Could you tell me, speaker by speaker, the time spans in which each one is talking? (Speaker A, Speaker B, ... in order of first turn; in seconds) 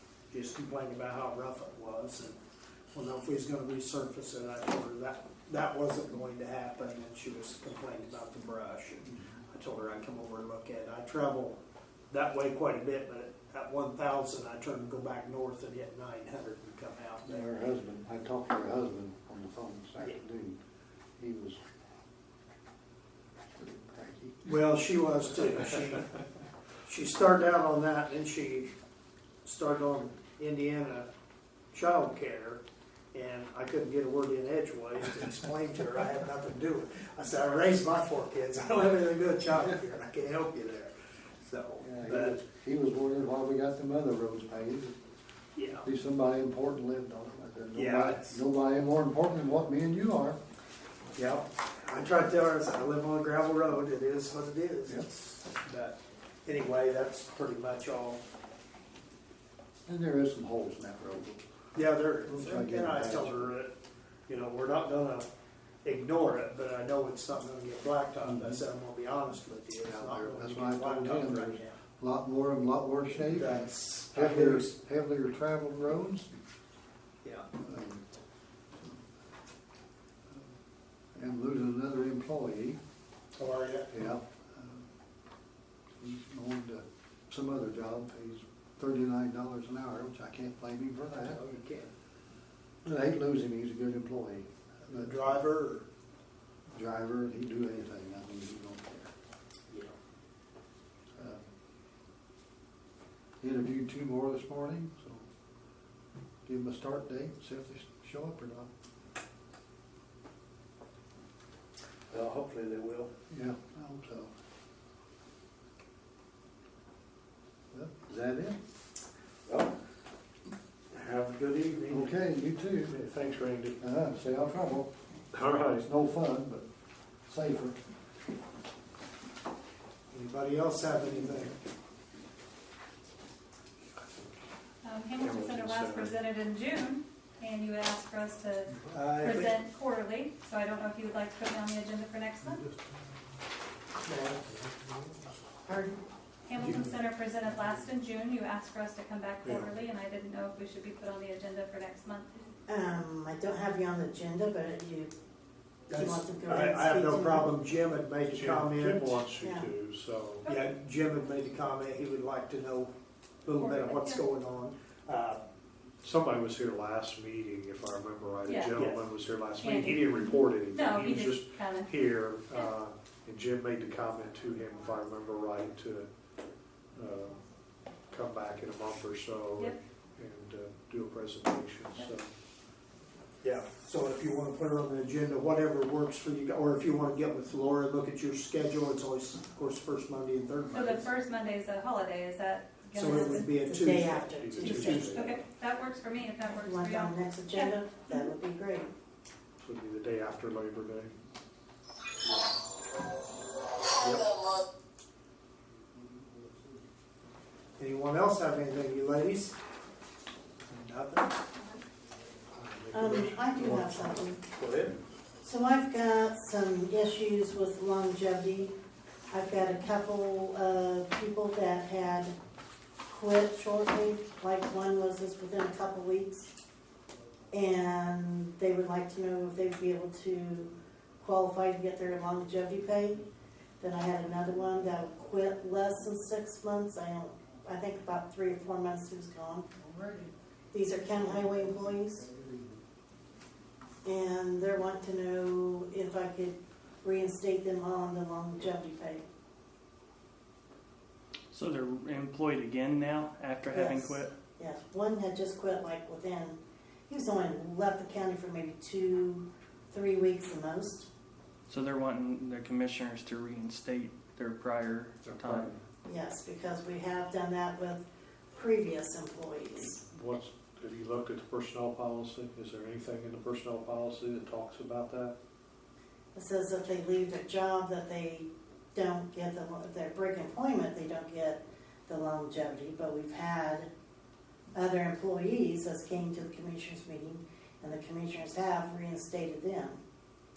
Speaker A: 0.3-2.4, 2.9-17.4, 24.4-26.1, 26.8-28.7, 29.4-31.1, 31.7-32.6, 33.1-42.4, 45.5-45.9, 47.7-48.4, 51.1-58.2, 61.7-63.7, 64.3-65.3, 65.8-71.8, 73.2-74.7, 77.2-77.5, 83.4-83.9, 91.2-91.9, 94.9-95.8, 99.7-99.9, 112.1-113.1, 121.0-121.9, 130.1-131.6, 138.9-139.5, 155.9-159.2, 160.4-165.4, 168.7-169.1, 183.4-191.1, 192.9-195.1, 207.8-209.6, 210.6-211.4, 212.7-214.9
Speaker B: 17.2-20.6, 21.2-21.6, 23.6-24.5, 41.8-45.0, 45.8-50.4, 59.9-61.4, 62.2-63.5, 68.2-68.6, 69.8-76.3, 77.6-78.0, 81.1-82.8, 83.9-84.8, 86.0-91.4, 92.8-95.4, 96.7-99.1, 101.2-101.4, 103.4-105.2, 106.5-108.7, 113.3-114.3, 117.7-118.6, 121.9-123.0, 123.8-124.9, 125.8-126.6, 127.3-127.8, 142.4-143.1, 144.1-145.2, 206.0-206.7, 239.8-240.3, 241.0-242.8
Speaker C: 121.0-122.1, 122.9-123.8, 125.3-125.8, 135.2-136.2, 149.4-149.7, 158.3-160.4, 166.0-176.1, 176.9-177.4, 178.1-182.3, 194.2-195.4, 199.6-201.1, 204.0-204.3, 270.1-275.3
Speaker D: 134.8-142.6, 146.4-152.3, 163.6-164.2, 168.4-168.7, 169.6-171.9, 190.7-193.6, 194.6-198.3
Speaker E: 145.7-146.0, 152.7-155.1, 155.9-157.5, 159.4-159.7, 193.0-195.3, 196.5-198.9, 212.9-214.4, 215.4-218.8, 219.3-222.4, 223.1-226.5, 227.5-233.2, 233.8-239.7, 240.7-242.3, 244.0-249.2, 253.7-261.1, 266.0-270.0, 276.3-283.9, 284.7-290.0
Speaker F: 251.5-254.3, 261.7-265.8